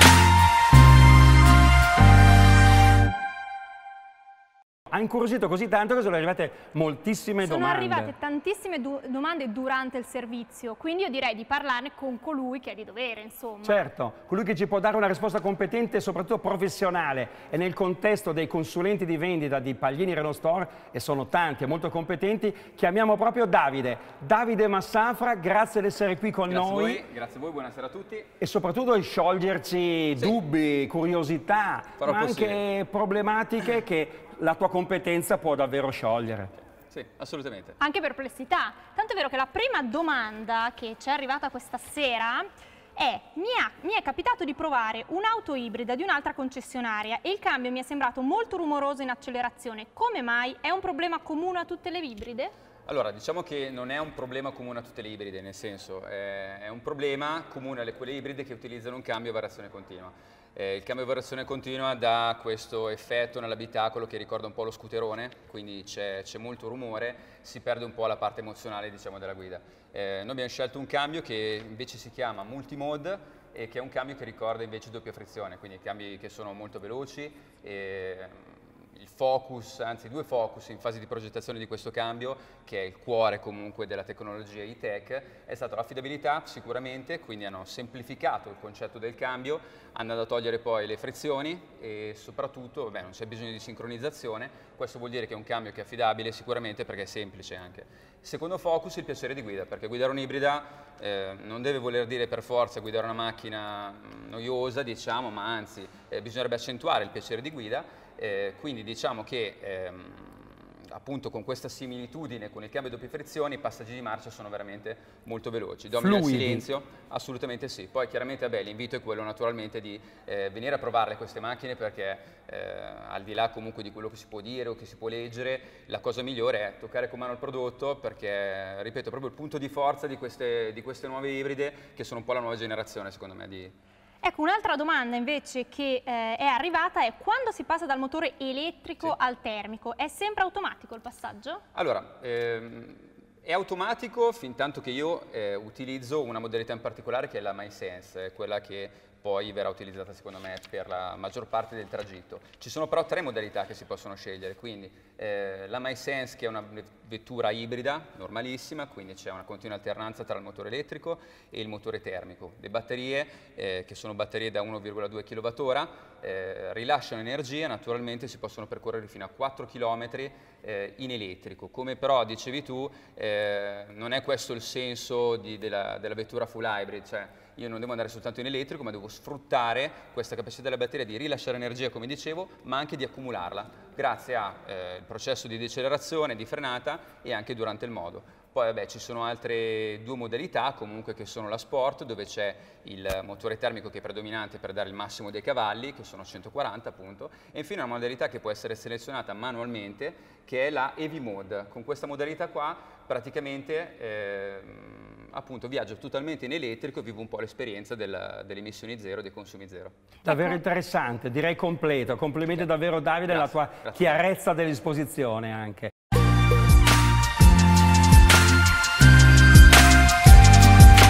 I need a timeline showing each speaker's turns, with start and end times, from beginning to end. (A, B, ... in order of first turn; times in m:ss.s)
0:04.9-0:08.1 A
0:07.4-0:13.9 B
0:13.6-0:27.0 A
0:26.5-0:28.3 C
0:28.4-0:36.5 A
0:32.0-0:32.6 C
0:36.9-0:37.8 C
0:37.8-0:52.5 B
0:52.8-2:13.7 C
1:55.9-1:56.6 A
2:14.2-2:21.6 B
2:21.7-3:30.0 C
3:30.2-3:35.9 A
3:33.3-3:34.2 C